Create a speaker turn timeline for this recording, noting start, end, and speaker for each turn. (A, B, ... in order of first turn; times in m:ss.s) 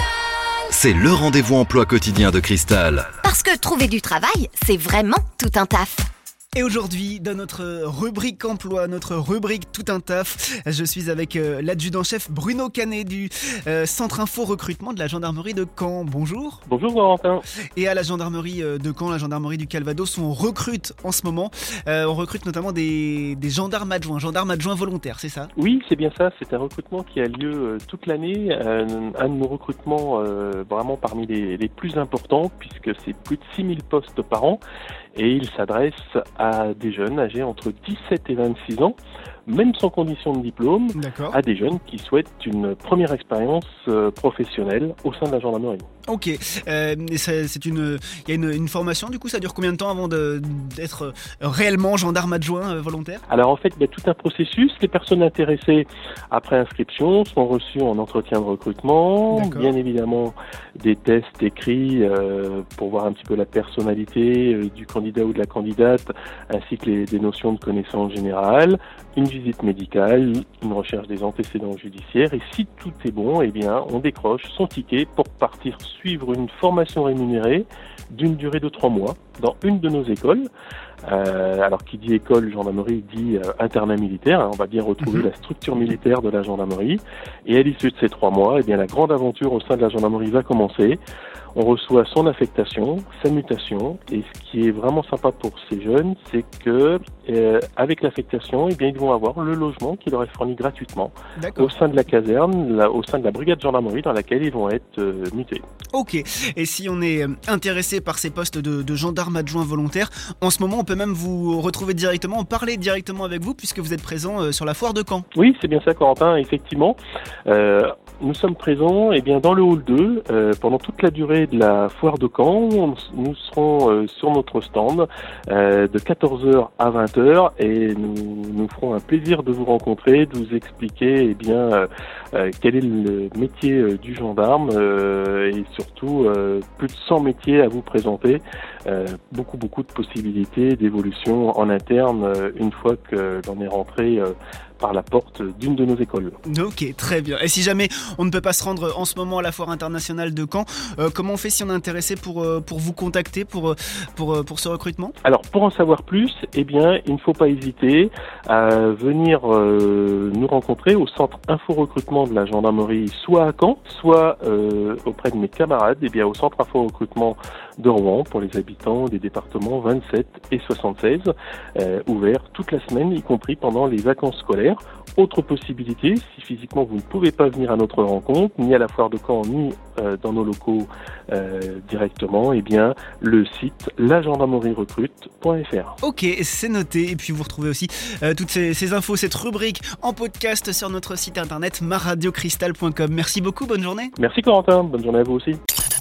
0:00.7-0:03.1 A
0:03.2-0:06.1 B
0:06.6-0:16.6 C
0:16.7-0:17.4 D
0:17.8-0:25.5 C
0:25.6-0:34.6 D
0:35.2-0:45.8 D
0:41.0-0:41.4 C
0:46.1-0:53.2 C
0:53.3-1:20.5 D
0:59.3-0:59.7 C
1:21.1-1:31.0 D
1:25.0-1:25.3 C
1:31.6-1:45.6 D
1:41.4-1:41.7 C
1:45.9-1:55.3 C
1:55.3-2:26.4 D
2:26.5-2:35.2 C
2:35.2-3:06.0 D
3:06.0-3:14.1 C
3:14.2-3:15.6 D